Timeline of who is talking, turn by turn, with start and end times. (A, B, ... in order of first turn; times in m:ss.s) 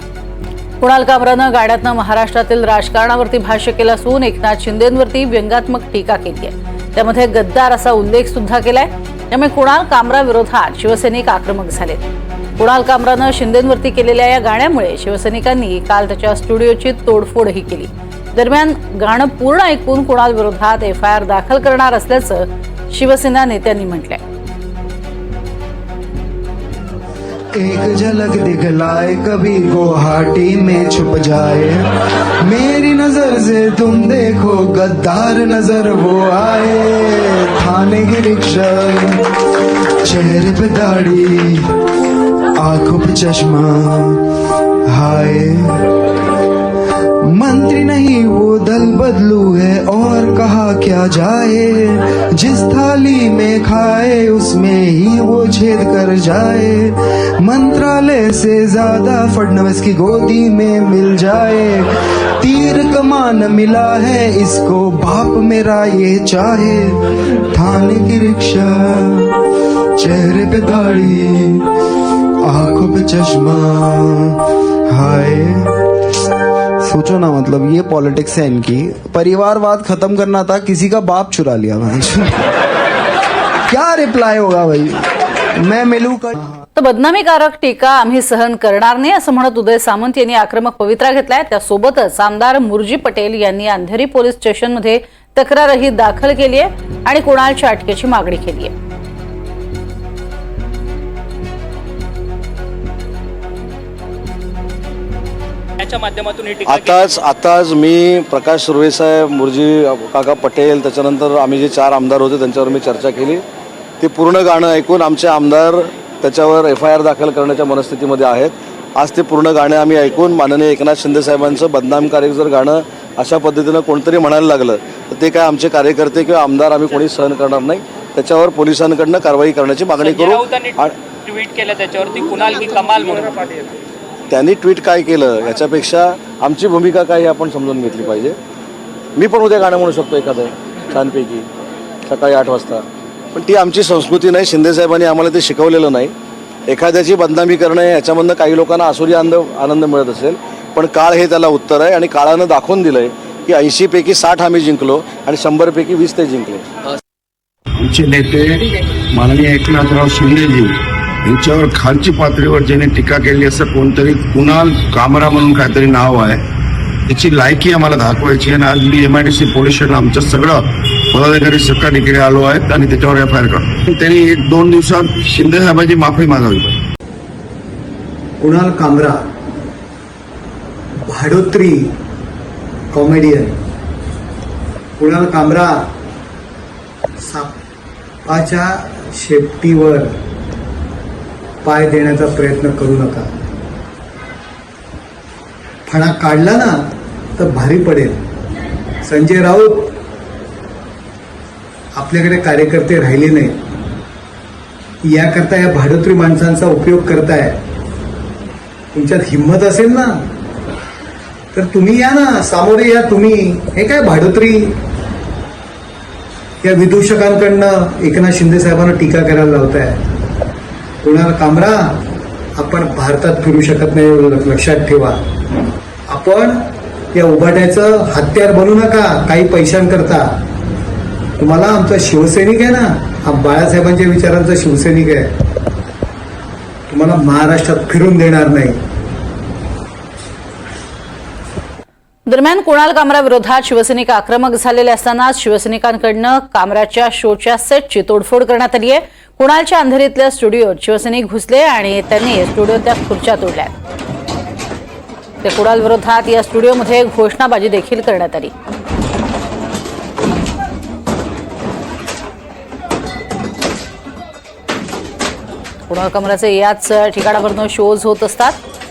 0:00.8-0:12.0 A
0:12.6-0:24.2 A
0:27.6-0:31.8 B
0:32.4-0:39.2 B
0:40.0-0:41.7 B
0:42.6-0:44.2 B
0:44.9-0:45.9 B
0:47.3-1:01.9 B
1:02.4-1:09.4 B
1:10.0-1:11.7 B
1:12.4-1:15.8 B
1:16.8-1:22.5 B
1:23.7-1:25.0 B
1:25.6-1:26.6 B
1:26.8-1:38.7 A
1:45.8-1:47.2 C
1:46.7-1:53.4 D
1:54.0-2:10.9 D
2:10.0-2:13.7 C
2:14.3-2:18.4 D
2:19.2-2:21.5 D
2:22.1-2:26.1 D
2:26.7-2:36.7 D
2:37.8-2:40.7 E
2:41.2-2:46.4 E
2:47.1-2:56.8 E
2:58.4-2:59.2 F
3:01.1-3:01.9 F
3:02.9-3:03.6 F
3:05.0-3:05.8 F
3:07.2-3:07.5 F
3:08.3-3:10.1 F
3:11.6-3:13.3 F
3:15.9-3:16.8 F
3:17.4-3:18.2 F
3:19.0-3:19.9 F
3:22.0-3:23.6 F
3:25.0-3:27.6 F
3:28.9-3:30.2 F
3:31.5-3:34.8 F
3:36.6-3:40.0 F
3:41.0-3:41.9 F
3:42.6-3:45.2 F
3:46.1-3:46.6 F
3:47.1-3:50.3 F
3:51.4-3:55.3 F
3:56.9-3:58.8 F
4:02.3-4:13.7 A
4:15.4-4:18.5 A
4:25.9-4:28.6 A